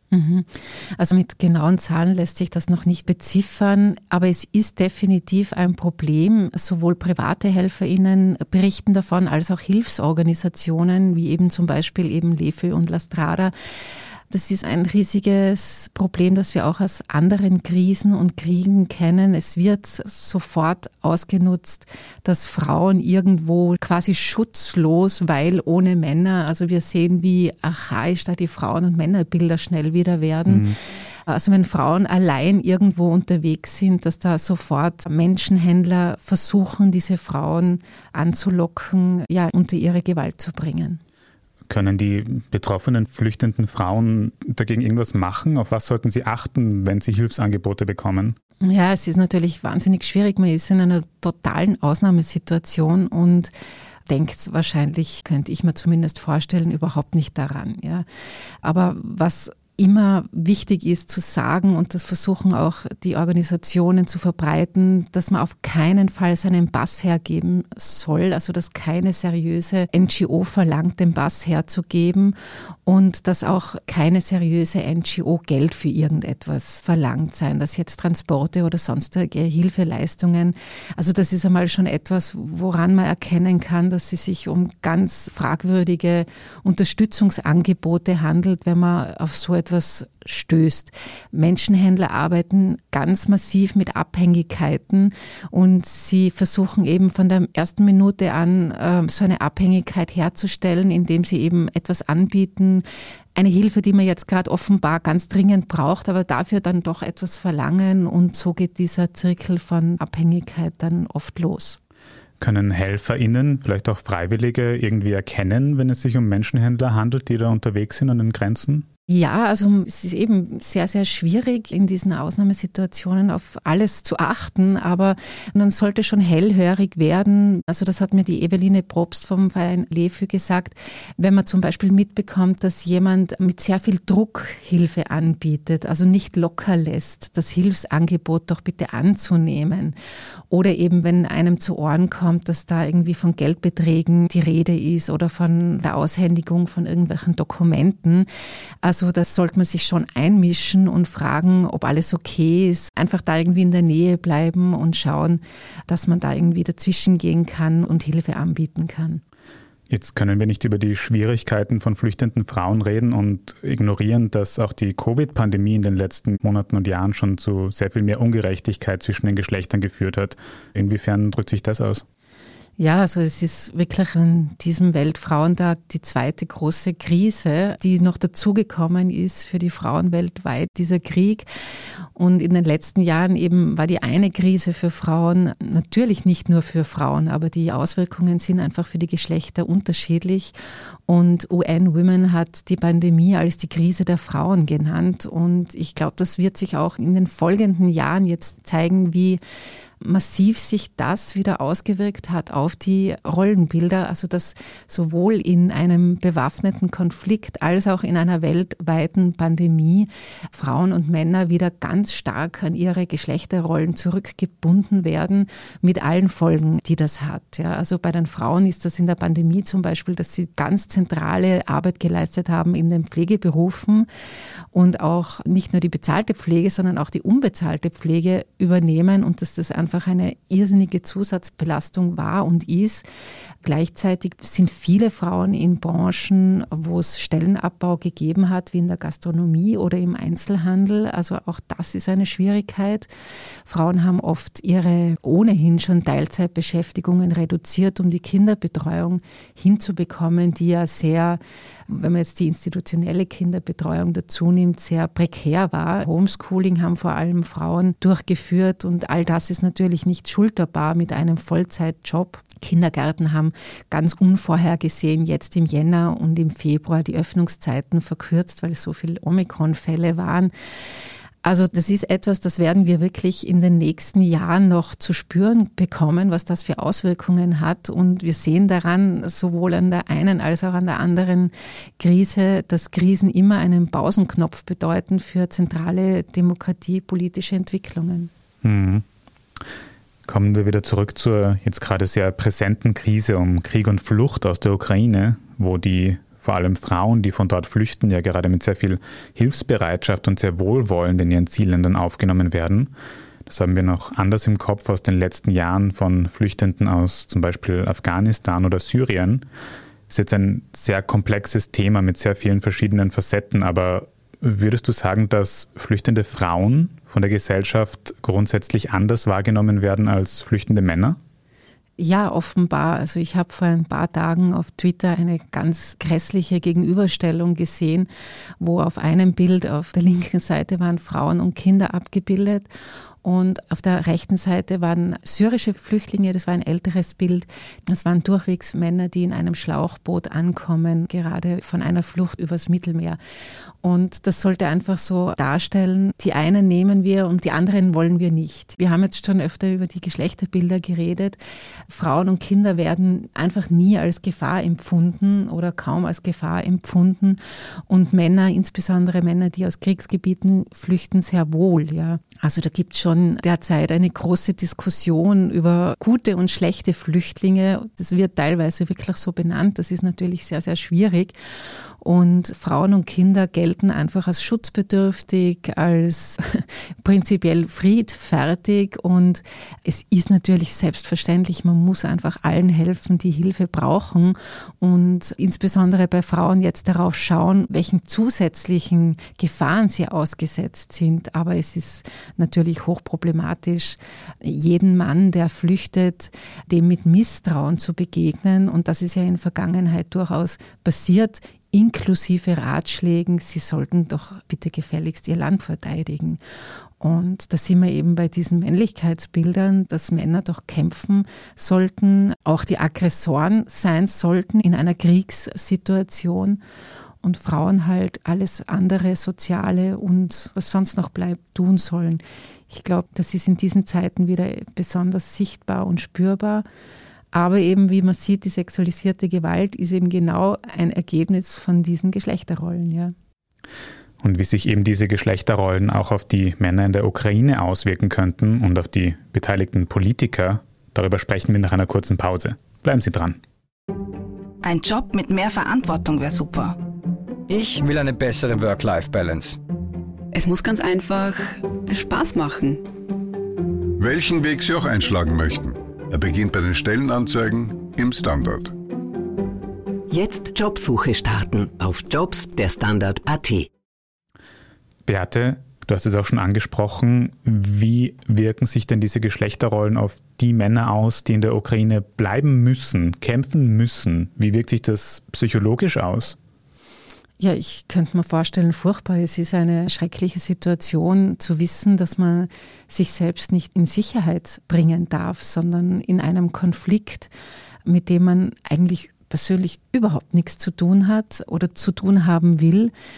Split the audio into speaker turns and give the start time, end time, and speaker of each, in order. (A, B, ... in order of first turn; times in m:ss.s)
0:00.1-0:13.5 A
0:14.3-0:30.7 A
0:30.5-0:30.8 B
0:31.3-0:41.0 A
0:41.7-0:48.4 B
0:48.6-0:53.5 A
0:54.1-0:58.0 A
0:58.6-1:42.8 A
1:43.4-1:51.8 A
1:52.4-1:58.8 B
1:59.1-2:19.9 A
2:20.5-2:28.3 A
2:28.8-2:39.2 A
2:39.9-2:52.0 B
2:52.8-3:01.5 A
3:02.1-3:10.5 A
3:11.1-3:19.4 A
3:20.0-3:44.1 A
3:44.7-3:53.0 A
3:53.6-4:03.1 A
4:03.6-4:30.5 A
4:31.4-4:48.3 A
4:48.6-4:49.0 B
4:50.2-5:02.9 B
5:03.4-5:09.4 B
5:10.1-5:21.2 B
5:22.0-5:28.1 A
5:28.6-5:32.7 A
5:33.2-5:43.2 A
5:43.8-6:11.3 A
6:12.0-6:46.4 A
6:47.0-6:56.6 A
6:57.2-7:06.6 A
7:07.3-7:13.1 A
7:14.2-7:23.4 B
7:24.7-7:26.7 C
7:27.5-7:29.6 D
7:30.3-7:32.8 E
7:34.0-7:38.7 F
7:40.1-7:43.7 G
7:45.0-7:56.4 B
7:57.4-8:07.3 A
8:07.8-8:12.9 A